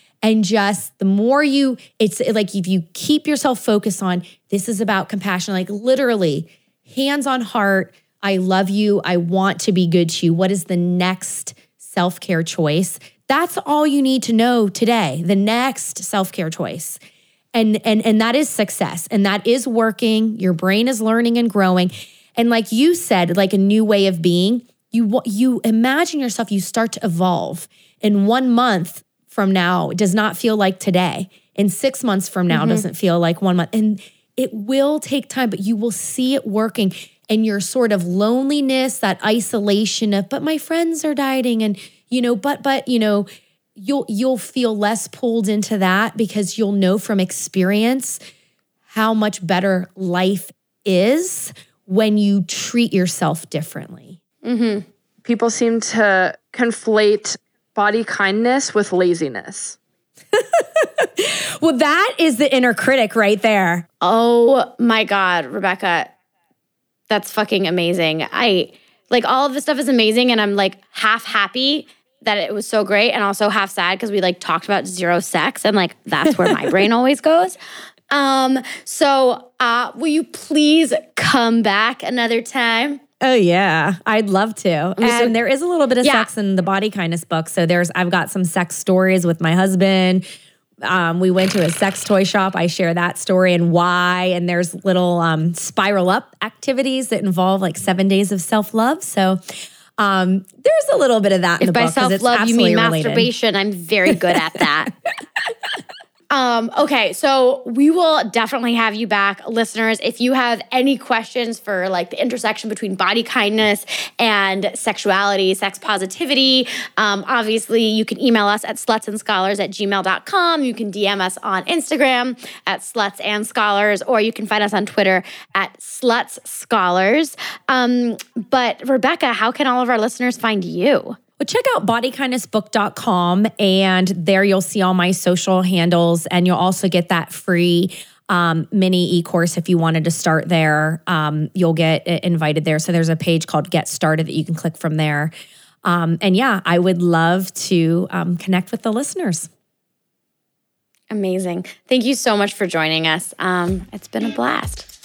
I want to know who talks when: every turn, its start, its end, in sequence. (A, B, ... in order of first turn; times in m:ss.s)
0:00.2-0:17.0 A
0:17.5-0:48.2 A
0:32.5-0:32.8 B
0:48.9-0:54.2 A
0:54.4-0:54.8 B
0:55.2-0:59.8 C
1:00.3-1:03.8 A
1:04.0-1:06.1 B
1:07.1-1:17.6 B
1:16.2-1:16.7 A
1:18.1-1:23.0 B
1:23.2-1:30.2 A
1:25.0-1:25.3 B
1:26.0-1:26.3 B
1:30.8-1:39.4 A
1:40.0-1:43.3 A
1:41.6-1:44.9 B
1:46.3-2:11.2 B
2:11.4-2:25.3 A
2:25.8-2:29.5 A
2:31.1-2:34.9 B